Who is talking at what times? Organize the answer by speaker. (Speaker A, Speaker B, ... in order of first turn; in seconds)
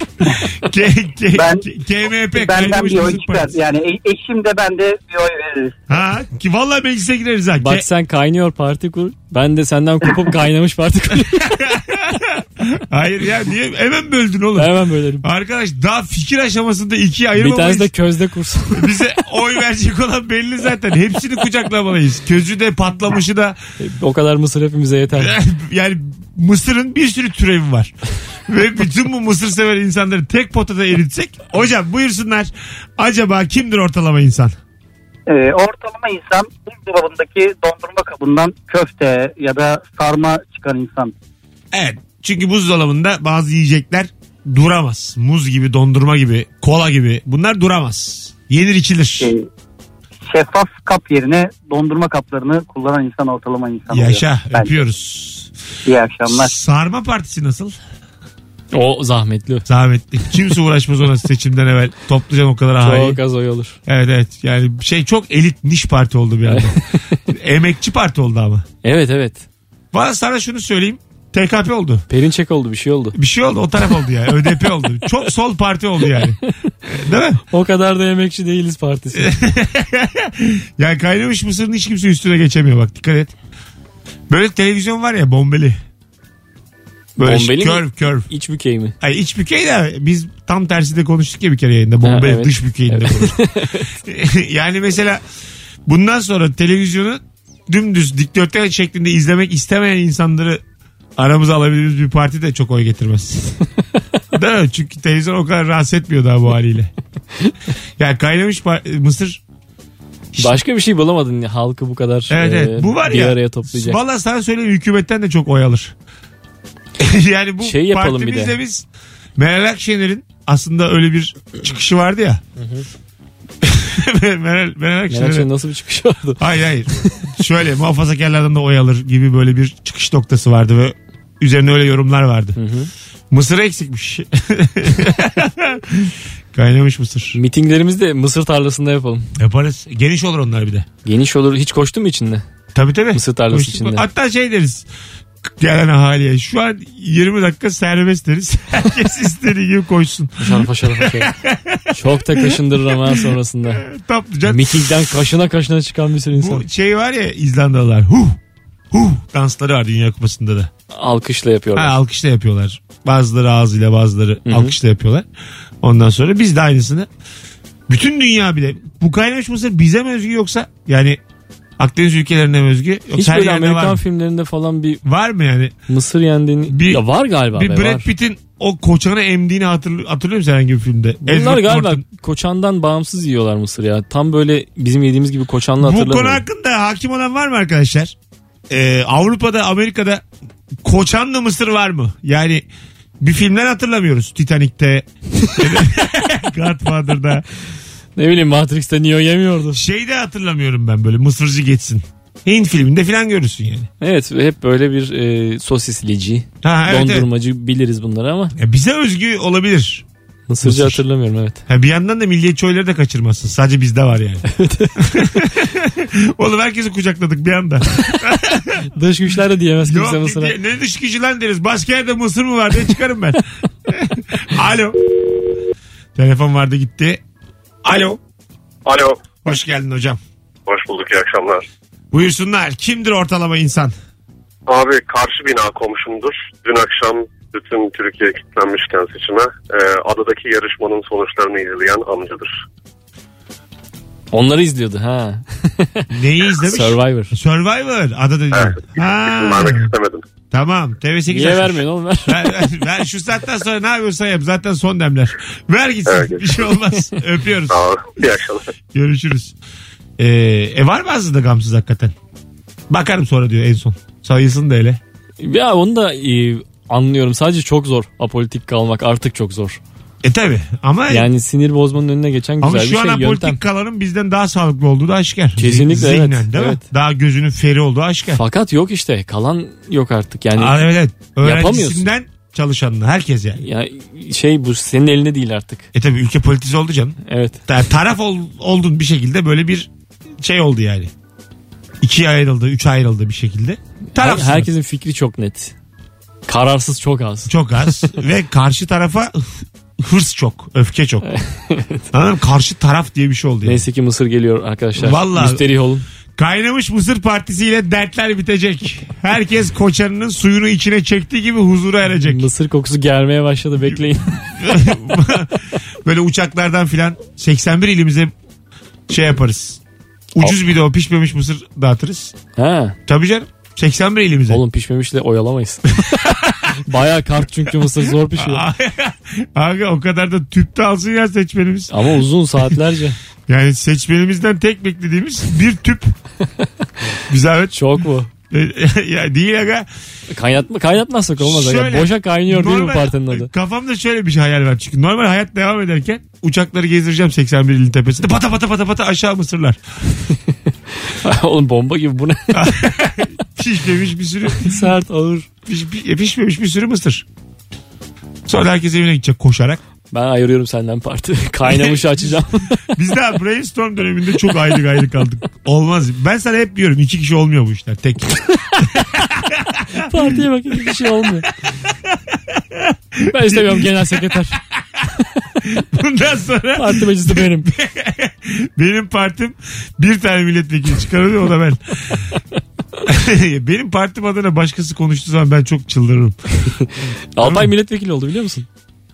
Speaker A: 0.6-3.6, 5.9-7.9, 11.2-17.9, 18.7-23.6, 25.2-27.9, 28.5-34.5, 41.7-49.3, 53.9-55.5, 56.3-57.8, 59.7-63.2, 63.9-68.7, 69.9-72.1, 73.2-77.4, 79.1-83.3, 84.3-85.8, 87.2-88.3, 89.0-93.4, 94.0-95.2, 95.9-100.6, 101.2-103.6, 104.3-106.9, 108.0-109.4, 112.3-115.9, 117.0-118.8, 119.4-122.4, 123.6-125.5, 126.4-132.6, 133.3-137.4, 139.4-140.9, 142.7-144.9, 145.5-155.1, 156.3-158.4, 158.9-160.7, 161.8-165.3, 165.8-167.1, 167.9-171.2, 171.8-174.0, 175.0-175.7, 176.7-182.0, 185.8-188.1, 188.7-190.2, 190.8-192.7, 193.2-195.1, 195.6-197.4, 199.7-203.9, 206.6-207.3, 208.6-210.0, 210.6-211.0, 211.7-214.5, 215.0-218.9, 219.8-225.0, 226.2-227.2, 227.8-228.2, 229.4-230.2, 232.1-233.9, 246.1-249.9, 250.5-257.8, 258.9-259.6, 260.2-262.1, 262.9-265.0, 270.2-271.3, 272.6-278.4, 280.5-283.6, 285.9-291.1, 292.0-294.7, 297.5-301.3, 302.1-303.8, 305.0-305.6, 306.4-312.5, 314.6-318.3, 319.1-319.8, 320.4-322.3, 323.1-324.6, 326.1-326.8, 328.3-331.9, 333.5-336.1, 337.3-337.9, 338.5-339.9, 341.4-349.8, 352.5-354.8, 355.7-357.2, 358.5-359.8, 361.6-371.3, 371.9-374.2, 375.6-382.2, 383.1-386.4, 387.4-387.7
Speaker B: 1.3-1.6, 2.3-5.8, 35.3-41.1, 49.2-49.5, 50.3-54.8, 55.9-56.5
Speaker C: 7.6-11.7, 14.6-15.3, 17.4-19.0, 23.8-25.4, 58.7-59.7, 62.8-63.8, 66.5-67.2, 68.8-69.5, 72.1-73.2, 77.5-79.3, 87.2-89.0, 92.0-93.9, 110.4-114.0, 117.6-118.6, 122.6-122.9, 125.1-126.4, 127.0-127.3, 132.6-132.9, 137.3-139.3, 141.1-142.4, 143.1-144.1, 150.4-151.3, 151.9-153.8, 154.5-156.7, 160.9-161.9, 164.5-164.8, 173.1-175.0, 175.9-178.1, 181.2-186.4, 198.2-199.8, 204.0-208.6, 210.5-211.6, 214.5-215.5, 218.9-220.6, 244.3-246.1, 246.6-247.3, 251.3-252.6, 265.4-269.8, 271.1-273.6, 275.6-276.8, 278.3-280.8, 281.4-282.1, 283.6-285.9, 287.2-287.6, 294.1-295.7, 296.5-298.1, 301.2-302.1, 303.6-306.1, 312.2-314.5, 322.6-323.0, 324.5-326.2, 326.8-328.6, 331.9-333.2, 337.7-338.3, 340.3-343.5, 350.3-352.7, 354.6-355.5, 360.1-362.9, 369.9-371.5, 373.3-374.6, 376.8-377.7, 386.6-388.7
Speaker D: 228.9-229.3, 230.7-231.7, 234.7-242.5, 248.6-250.2, 256.1-256.4, 257.7-258.7